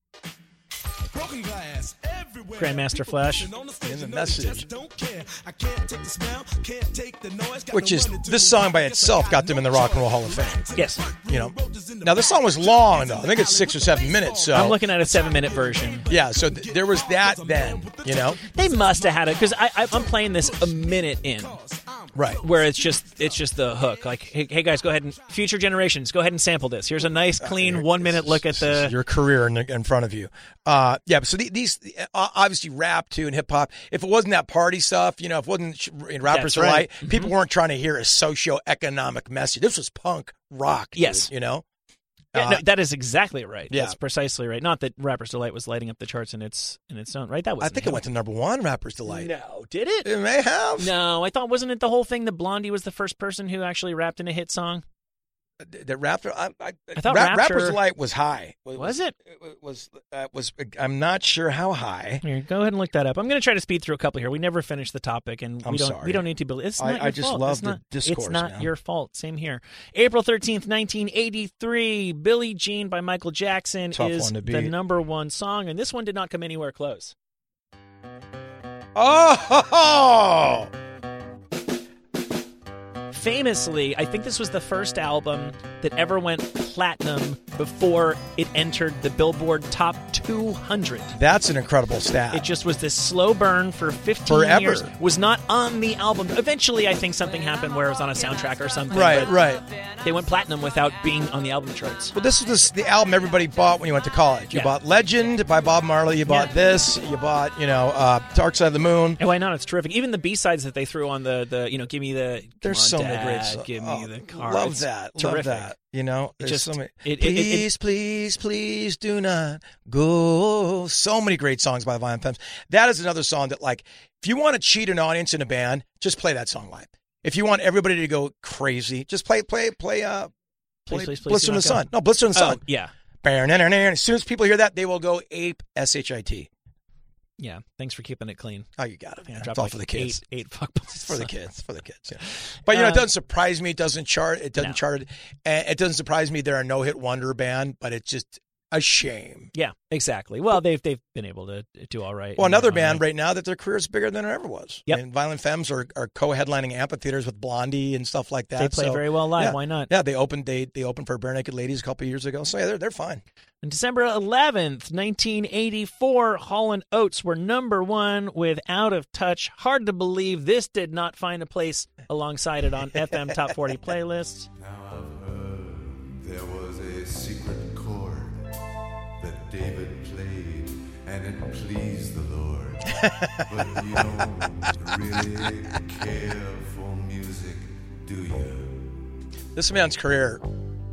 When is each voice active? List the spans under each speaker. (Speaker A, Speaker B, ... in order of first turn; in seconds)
Speaker A: 1.1-24.2
Speaker B: 2.6-3.5, 10.8-11.0, 14.5-16.1, 18.5-21.6, 22.4-28.9, 36.3-37.3, 41.0-41.3, 42.3-48.0, 49.1-50.1, 50.8-54.8, 57.0-57.8, 58.8-59.1, 62.2-77.1, 83.1-91.2, 92.3-102.1, 106.2-106.5, 109.2-115.7, 116.4-117.7, 130.9-132.9, 137.4-138.7, 139.2-141.3, 142.7-143.1, 149.5-153.0, 158.6-159.9, 163.6-174.5
Speaker C: 3.8-4.7, 7.7-10.6, 11.3-14.8, 16.1-18.4, 22.1-22.4, 27.4-41.6, 42.3-42.6, 43.7-44.0, 47.6-49.3, 50.0-50.9, 55.6-62.2, 65.6-66.2, 66.8-68.7, 73.9-74.7, 79.0-80.7, 91.1-92.5, 94.3-94.9, 98.9-99.6, 102.1-109.2, 112.6-130.3, 130.9-132.6, 133.2-136.5, 138.8-140.2, 141.1-149.5, 152.4-163.2, 172.9-173.5, 183.0-183.5, 189.6-190.4
Speaker D: 174.6-178.5, 179.2-189.1